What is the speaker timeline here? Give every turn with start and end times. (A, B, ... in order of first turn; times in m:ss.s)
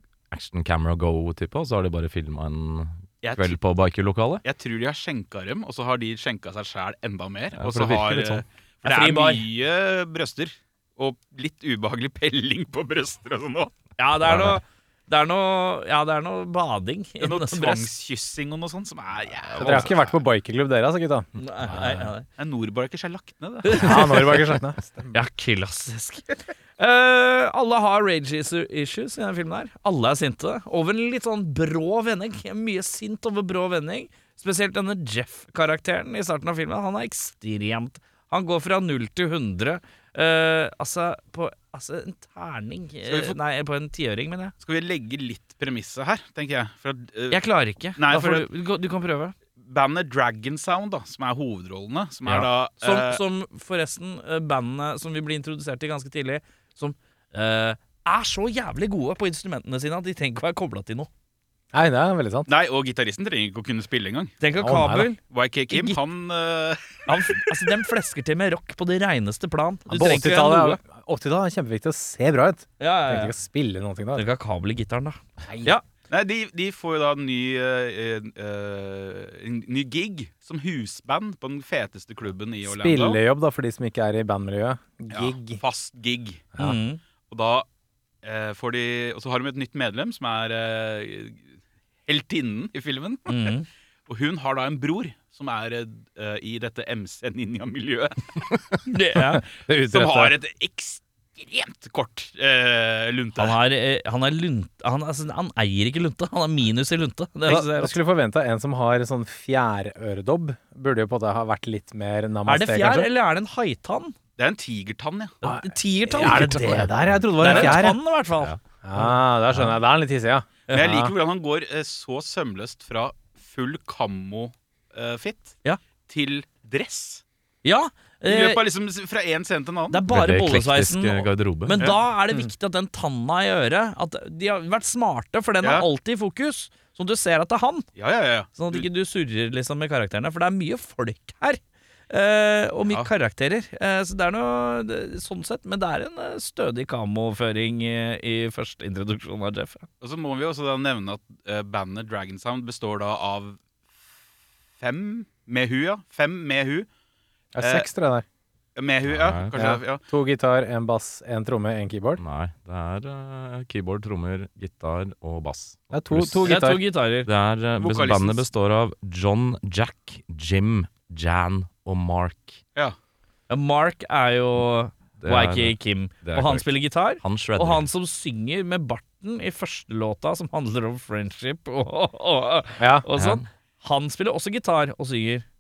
0:00.3-0:04.4 A
0:03.2-0:03.6 B
0:04.4-0:13.7 B
0:07.6-0:08.4 A
0:08.8-0:09.4 C
0:14.0-0:17.9 C
0:14.2-0:14.6 A
0:17.2-0:20.1 B
0:19.6-0:22.1 D
0:21.4-0:22.3 C
0:22.4-0:24.3 B
0:23.6-0:24.6 C
0:23.7-0:25.1 D
0:25.1-0:44.5 C
0:43.1-0:43.4 B
0:44.6-0:47.4 B
0:47.3-0:49.3 C
0:48.0-0:48.5 B
0:49.6-0:53.2 B
0:52.3-1:01.1 C
1:01.7-1:02.5 D
1:02.5-1:04.4 B
1:04.4-1:05.2 C
1:04.6-1:05.1 D
1:05.2-1:07.5 B
1:05.7-1:06.0 C
1:07.1-1:10.8 C
1:09.9-1:14.2 D
1:12.8-1:13.3 C
1:14.2-1:15.8 C
1:15.5-1:15.8 D
1:16.1-1:23.2 B
1:22.6-1:25.6 D
1:25.1-1:26.5 B
1:26.6-1:27.0 C
1:27.3-1:27.7 B
1:28.2-1:31.4 B
1:32.1-1:33.6 B
1:33.3-1:33.7 C
1:34.1-1:38.2 B
1:38.9-1:39.4 C
1:39.4-1:40.3 D
1:39.9-1:43.6 B
1:43.4-1:48.0 C
1:47.5-1:53.1 D
1:52.5-1:54.2 C
1:54.4-1:55.4 B
1:55.4-1:59.7 C
1:55.4-1:58.0 D
1:57.1-1:57.6 A
1:58.8-2:01.1 D
2:00.7-2:05.6 B
2:06.1-2:07.2 B
2:07.6-2:08.6 C
2:08.3-2:10.0 B
2:09.9-2:17.9 C
2:10.1-2:11.8 A
2:18.0-2:18.9 B
2:18.6-2:29.9 C
2:22.8-2:23.1 B
2:30.0-2:33.6 B
2:34.8-2:36.9 B
2:37.5-2:38.3 D
2:37.6-2:37.9 B
2:38.8-2:40.0 B
2:39.1-2:39.5 A
2:39.5-2:42.2 D
2:42.2-2:46.6 A
2:45.9-2:46.8 D
2:46.4-2:47.3 C
2:47.2-2:52.6 A
2:47.8-2:48.5 B
2:53.5-3:05.4 C
2:55.2-2:57.9 A
3:02.8-3:03.1 D
3:03.2-3:03.4 A